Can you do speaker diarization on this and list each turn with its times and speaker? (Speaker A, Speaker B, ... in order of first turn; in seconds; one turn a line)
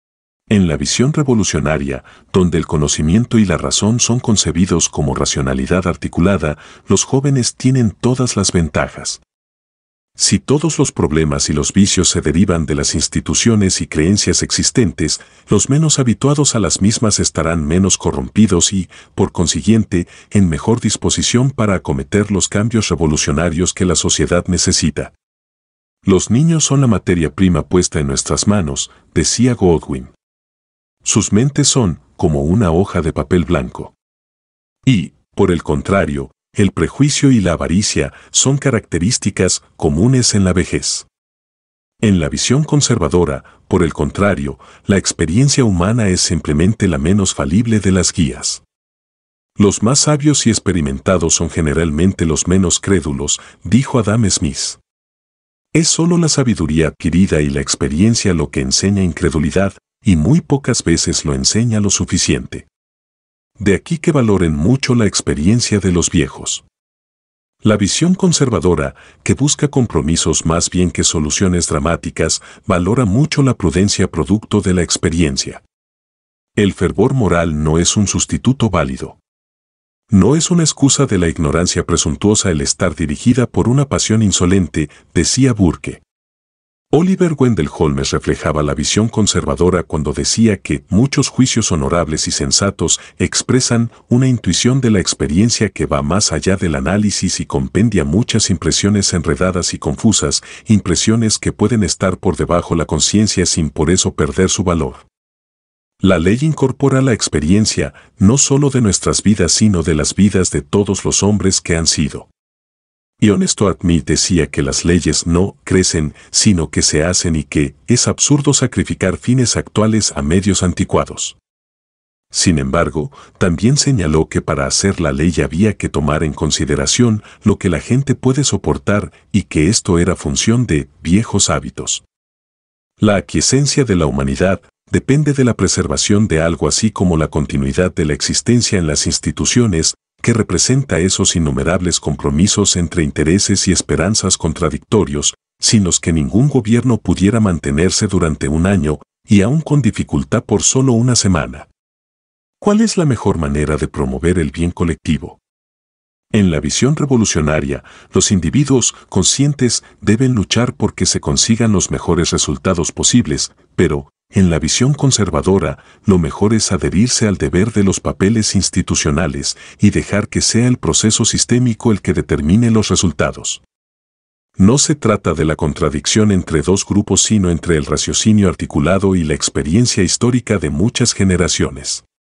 Speaker A: 0.5-9.2
Speaker A: 10.2-25.1
Speaker A: 26.0-30.1
Speaker A: 31.0-34.0
Speaker A: 34.8-41.1
Speaker A: 42.0-48.6
Speaker A: 49.6-54.8
Speaker A: 55.7-62.7
Speaker A: 63.6-66.6
Speaker A: 67.6-75.6
Speaker A: 76.6-79.2
Speaker A: 80.1-86.0
Speaker A: 86.9-105.1
Speaker A: 106.0-112.3
Speaker A: 113.2-121.4
Speaker A: 122.3-132.0
Speaker A: 133.0-151.7
Speaker A: 152.6-155.4
Speaker A: 156.3-173.6
Speaker A: 174.6-182.0